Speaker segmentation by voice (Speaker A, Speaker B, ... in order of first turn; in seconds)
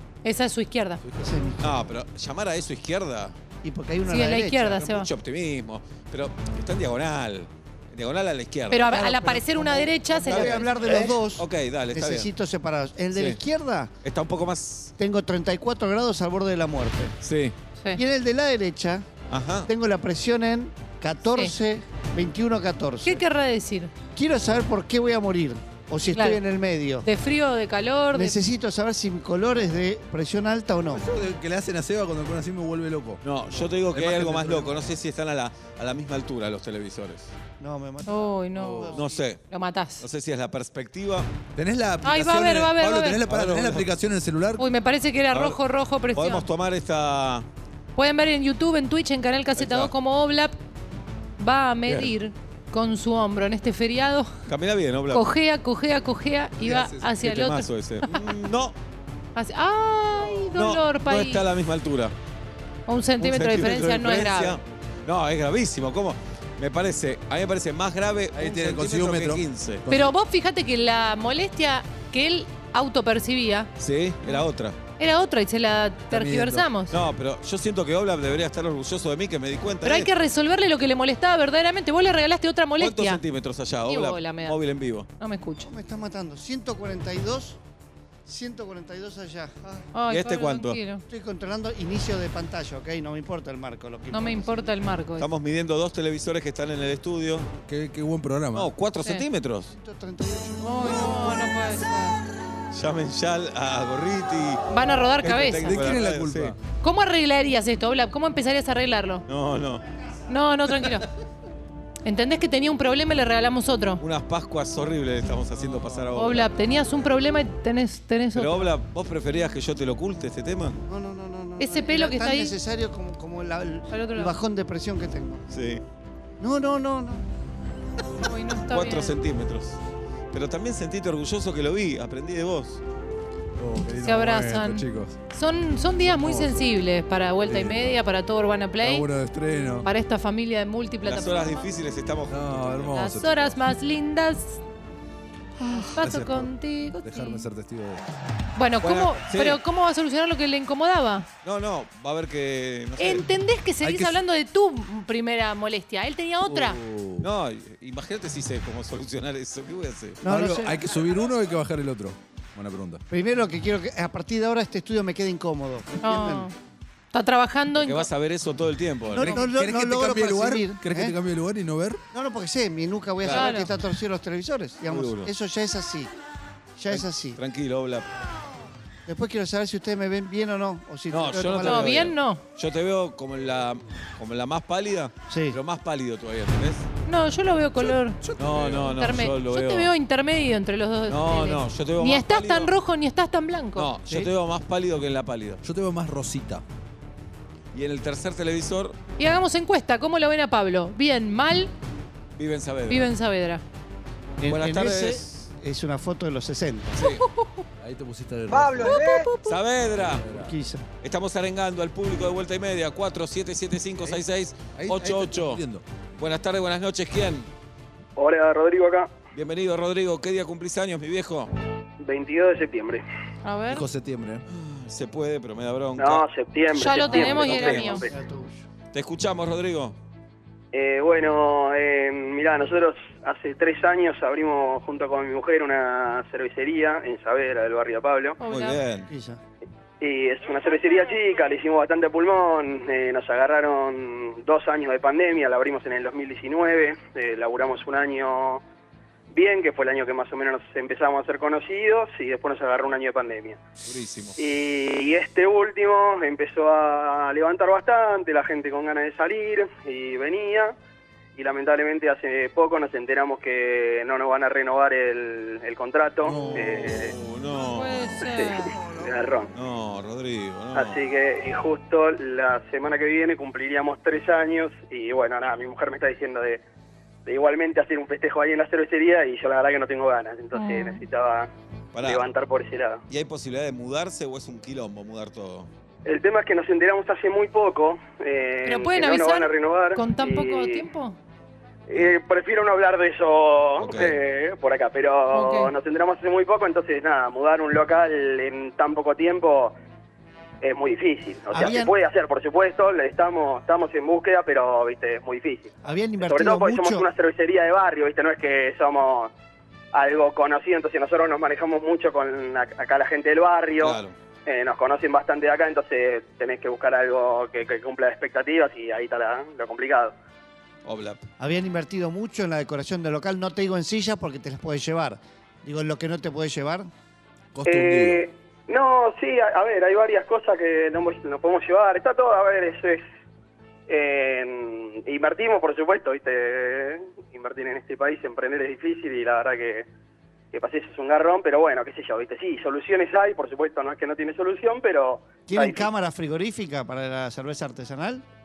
Speaker A: 0.2-1.0, 4.1-5.1, 8.7-10.7, 23.0-23.9, 26.1-26.4, 27.0-28.4, 38.1-39.0, 39.5-40.0, 42.0-43.2, 44.6-46.5, 48.0-50.5, 51.4-54.3, 55.1-58.2, 59.4-61.4, 62.9-64.6, 69.9-73.7, 75.0-76.9, 79.8-83.2, 83.9-84.6, 85.2-85.7, 89.9-91.0, 94.1-95.3, 100.6-102.1, 104.7-105.8, 106.8-109.2, 110.3-111.1, 112.0-114.0, 116.1-118.7, 121.6-122.5, 123.9-124.4, 128.2-129.1, 134.0-139.1, 139.8-141.7, 142.8-144.6, 145.9-147.5, 148.6-151.3, 153.0-156.8, 166.0-166.5, 167.1-168.1, 173.3-173.7, 181.6-182.4, 187.1-188.2, 188.8-193.9, 199.2-201.7, 202.9-203.6, 207.0-207.6, 208.8-209.6, 223.4-223.8, 226.7-228.1, 238.4-238.8, 267.7-268.7, 280.5-281.0, 288.6-291.2, 295.3-295.7
Speaker B: 1.0-1.3, 30.9-33.2, 33.9-34.7, 38.5-38.9, 41.5-44.6, 56.6-57.1, 68.3-70.1, 76.1-76.7, 97.7-98.7, 105.7-106.6, 133.6-135.2, 136.0-136.7, 137.4-138.0, 138.8-139.9, 142.3-143.6, 145.6-148.1, 153.8-154.2, 156.4-157.3, 160.2-163.0, 169.2-172.0, 188.2-189.0, 195.6-196.6, 207.8-209.3, 210.1-210.5, 214.7-215.8, 223.7-224.4, 266.2-266.7, 327.5-328.2
Speaker C: 1.2-1.6, 3.6-4.7, 8.8-13.9, 15.0-17.1, 17.9-19.1, 19.7-23.2, 24.1-27.1, 28.1-31.0, 37.6-39.2, 85.6-87.6, 88.2-89.8, 91.1-94.7, 99.7-101.5, 120.9-125.5, 126.4-127.2, 160.2-160.8, 163.1-166.5, 169.1-171.2, 172.1-176.1, 176.8-177.4, 179.1-182.1, 185.3-185.6, 204.4-206.9, 210.2-210.8, 228.1-228.6, 239.1-239.4, 268.7-269.5, 301.5-301.9, 305.8-307.1, 321.4-326.9, 345.5-348.2
Speaker D: 1.6-3.4, 4.7-8.9, 10.3-12.3, 13.1-13.4, 14.0-14.9, 17.2-17.5, 19.3-19.7, 33.2-37.3, 38.9-39.4, 40.0-41.3, 43.2-43.9, 45.3-45.6, 46.1-47.5, 49.6-49.9, 54.5-55.3, 57.2-58.8, 60.5-62.1, 63.2-69.8, 73.8-74.8, 76.9-80.1, 82.8-85.1, 90.1-90.8, 95.2-97.5, 98.5-99.7, 102.7-104.6, 105.2-106.5, 109.3-109.8, 114.0-116.5, 118.3-120.8, 125.5-125.8, 128.7-129.8, 130.3-132.8, 141.0-142.9, 148.8-149.6, 151.4-153.2, 157.2-160.2, 167.8-169.4, 173.2-173.6, 174.9-175.3, 176.9-178.1, 181.1-186.9, 188.3-189.9, 191.1-192.7, 193.8-195.6, 197.7-198.9, 202.3-203.1, 204.4-205.4, 206.9-207.2, 209.4-210.2, 211.0-215.6, 216.2-217.5, 219.3-221.5, 224.5-226.2, 227.0-228.0, 228.9-229.9, 238.4-239.1, 253.8-254.3, 266.3-268.2, 269.5-271.0, 281.9-282.3, 283.1-285.7, 293.8-294.2, 313.8-314.1, 320.8-321.2
Speaker E: 218.2-219.1, 222.0-223.0, 226.0-228.2, 230.7-238.4, 240.0-248.6, 249.3-253.6, 254.4-260.7, 261.4-267.1, 268.2-269.5, 270.7-276.6, 277.2-281.5, 282.0-283.0, 286.0-290.9, 291.9-299.7, 300.6-309.3, 309.9-320.1, 327.6-333.0, 333.9-339.9, 340.5-345.9